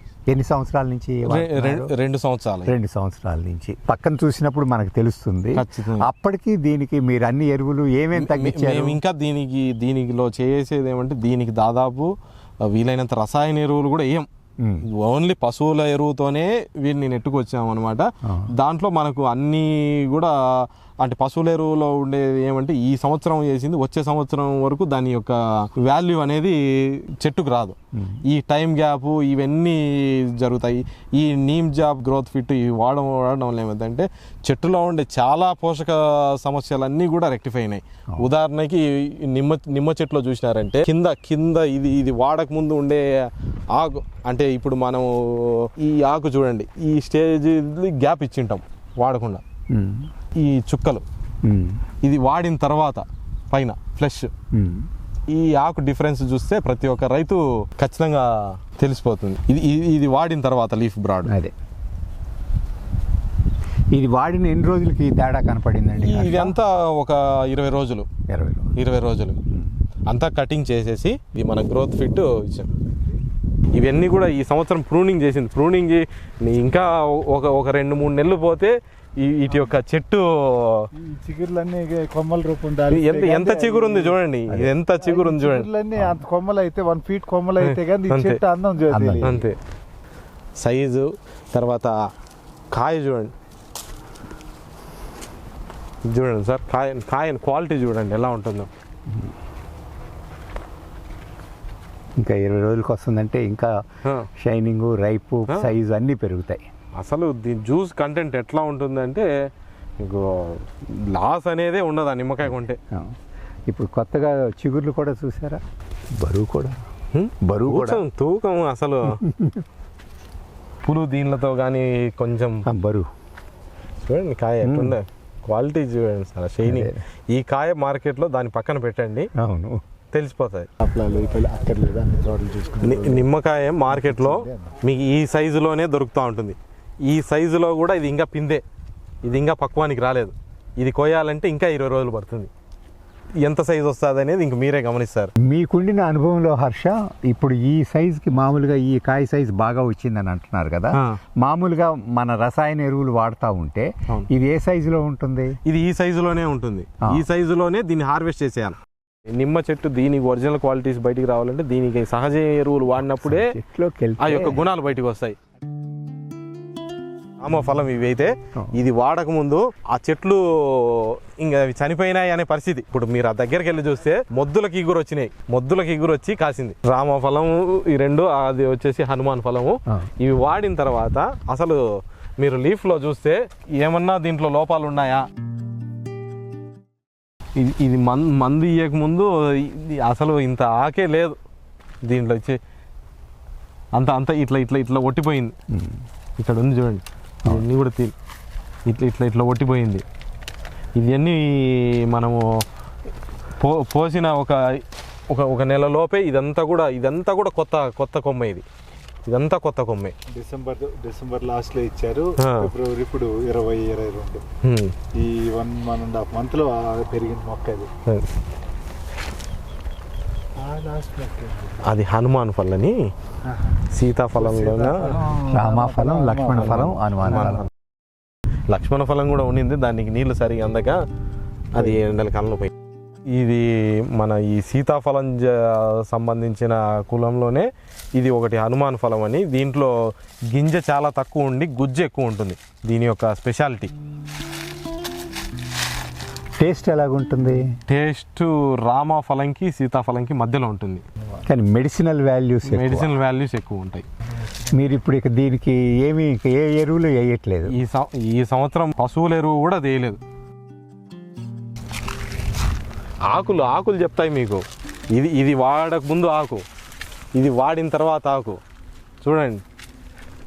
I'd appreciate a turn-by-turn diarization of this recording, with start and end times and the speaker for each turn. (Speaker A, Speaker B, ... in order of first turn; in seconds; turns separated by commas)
Speaker A: 0.3-1.9, Speaker B: 1.3-2.7, Speaker A: 2.7-9.0, Speaker B: 5.5-6.1, Speaker B: 8.2-12.1, Speaker B: 12.7-14.3, Speaker B: 14.9-43.1, Speaker A: 18.2-18.5, Speaker A: 27.9-28.2, Speaker B: 43.7-49.4, Speaker A: 49.7-50.1, Speaker B: 50.4-51.0, Speaker A: 51.4-51.8, Speaker B: 52.0-54.3, Speaker A: 54.5-54.9, Speaker B: 55.3-61.3, Speaker A: 61.3-61.5, Speaker A: 63.9-66.6, Speaker B: 66.0-68.1, Speaker A: 68.3-68.7, Speaker B: 68.8-69.4, Speaker B: 70.1-72.7, Speaker B: 73.8-80.9, Speaker C: 80.9-84.2, Speaker B: 82.9-85.7, Speaker A: 84.5-84.7, Speaker C: 85.0-89.5, Speaker B: 87.6-88.4, Speaker A: 88.9-89.3, Speaker B: 89.2-89.6, Speaker B: 90.6-91.9, Speaker B: 92.7-93.3, Speaker B: 96.0-98.7, Speaker A: 99.1-99.3, Speaker A: 102.2-103.7, Speaker A: 104.4-106.7, Speaker B: 105.5-105.8, Speaker B: 107.0-109.3, Speaker B: 110.0-112.8, Speaker A: 112.5-113.2, Speaker A: 113.7-115.6, Speaker A: 116.2-116.8, Speaker B: 117.1-119.2, Speaker A: 117.4-118.0, Speaker A: 119.1-119.7, Speaker B: 120.8-122.6, Speaker A: 122.7-123.1, Speaker B: 124.0-129.3, Speaker A: 124.6-125.0, Speaker A: 126.6-127.0, Speaker A: 129.4-129.8, Speaker B: 130.1-130.7, Speaker C: 130.8-133.3, Speaker B: 132.8-138.6, Speaker C: 133.9-134.7, Speaker B: 139.2-142.5, Speaker B: 143.4-145.3, Speaker A: 145.4-155.6, Speaker B: 150.9-151.2, Speaker B: 155.7-158.8, Speaker B: 159.3-163.5, Speaker A: 163.2-164.7, Speaker B: 164.2-165.4, Speaker B: 167.4-181.8, Speaker B: 182.4-185.2, Speaker B: 187.6-191.4, Speaker B: 192.1-192.6, Speaker B: 193.9-195.5, Speaker A: 195.7-196.0, Speaker B: 196.4-198.1, Speaker B: 198.9-200.0, Speaker B: 201.0-202.4, Speaker B: 203.6-208.7, Speaker B: 209.3-210.1, Speaker C: 210.3-214.4, Speaker B: 212.4-212.7, Speaker B: 214.6-214.9, Speaker C: 215.1-217.9, Speaker C: 220.6-221.8, Speaker B: 221.8-223.0, Speaker C: 223.4-223.8, Speaker B: 223.9-225.2, Speaker C: 224.4-226.9, Speaker A: 225.5-227.7, Speaker B: 226.6-227.7, Speaker B: 228.7-231.0, Speaker B: 231.7-232.7, Speaker B: 233.3-239.9, Speaker B: 240.5-243.9, Speaker A: 246.6-247.7, Speaker B: 247.9-251.0, Speaker A: 251.4-253.1, Speaker B: 252.7-254.1, Speaker A: 254.7-257.7, Speaker B: 257.7-260.2, Speaker B: 263.3-266.6, Speaker B: 267.4-268.6, Speaker B: 269.2-269.6